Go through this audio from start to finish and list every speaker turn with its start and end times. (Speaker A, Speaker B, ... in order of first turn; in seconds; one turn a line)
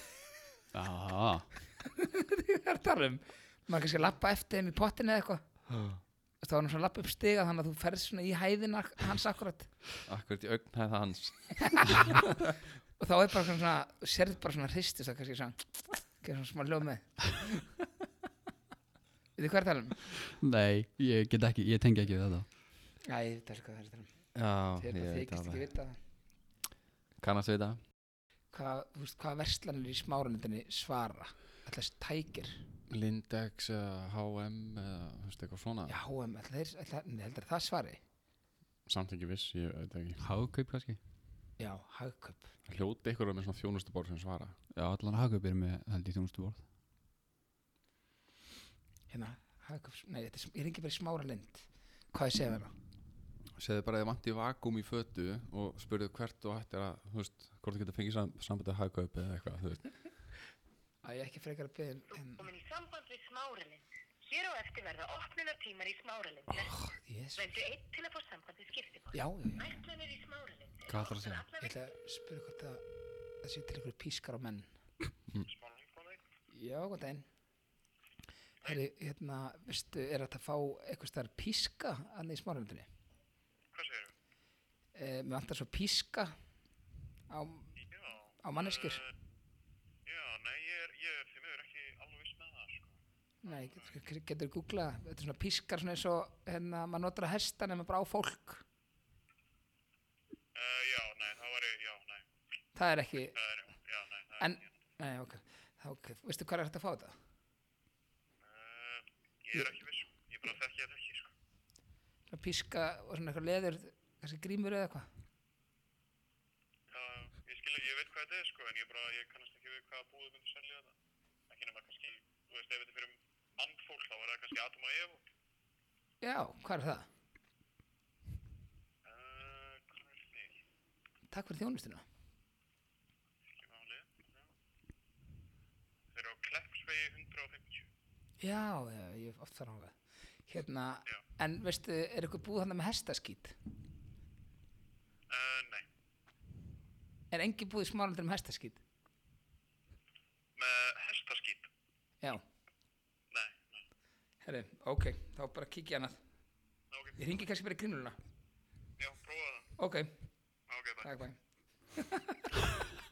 Speaker A: 0.7-1.5
Speaker B: 1.8-5.4
Speaker C: 5.7-6.0
Speaker B: 6.4-9.7
Speaker C: 10.1-12.3
Speaker B: 11.7-12.2
Speaker B: 13.0-17.6
Speaker B: 19.4-20.0
Speaker A: 20.4-22.5
Speaker B: 23.1-24.1
Speaker C: 24.3-25.7
Speaker B: 24.8-26.0
Speaker C: 27.2-27.8
Speaker B: 28.5-32.6
Speaker C: 32.9-36.0
Speaker B: 35.9-38.0
Speaker C: 38.9-40.2
Speaker A: 40.2-41.0
Speaker B: 41.6-42.5
Speaker C: 42.7-44.5
Speaker A: 44.8-46.6
Speaker B: 49.1-52.7
Speaker C: 53.6-59.9
Speaker B: 61.0-62.5
Speaker D: 62.1-66.8
Speaker B: 66.6-67.4
Speaker D: 67.3-71.8
Speaker B: 69.1-69.8
Speaker A: 70.9-71.5
Speaker B: 71.6-72.8
Speaker B: 73.4-74.7
Speaker E: 75.4-76.2
Speaker B: 76.5-77.3
Speaker B: 78.6-82.9
Speaker E: 83.7-84.1
Speaker B: 85.0-86.3
Speaker B: 87.3-87.7
Speaker E: 87.8-89.1
Speaker B: 88.4-89.0
Speaker E: 90.1-94.0
Speaker B: 93.4-98.6
Speaker E: 100.5-102.3
Speaker B: 102.8-103.3
Speaker E: 103.3-104.7
Speaker B: 104.4-107.2
Speaker E: 108.4-111.3
Speaker B: 112.3-115.1
Speaker E: 116.9-120.9
Speaker E: 121.5-125.3
Speaker B: 126.2-127.1
Speaker E: 129.1-130.6
Speaker B: 131.3-132.0
Speaker E: 133.6-134.4
Speaker E: 136.1-137.9
Speaker B: 138.4-139.9
Speaker B: 140.5-143.6
Speaker E: 145.3-145.9
Speaker B: 147.3-148.8
Speaker E: 150.6-151.7
Speaker E: 153.3-153.8
Speaker B: 154.4-156.2
Speaker E: 156.9-157.2
Speaker B: 157.2-158.2
Speaker E: 159.0-159.7
Speaker B: 159.8-160.1
Speaker E: 160.7-161.1
Speaker B: 161.0-161.4
Speaker B: 162.0-162.5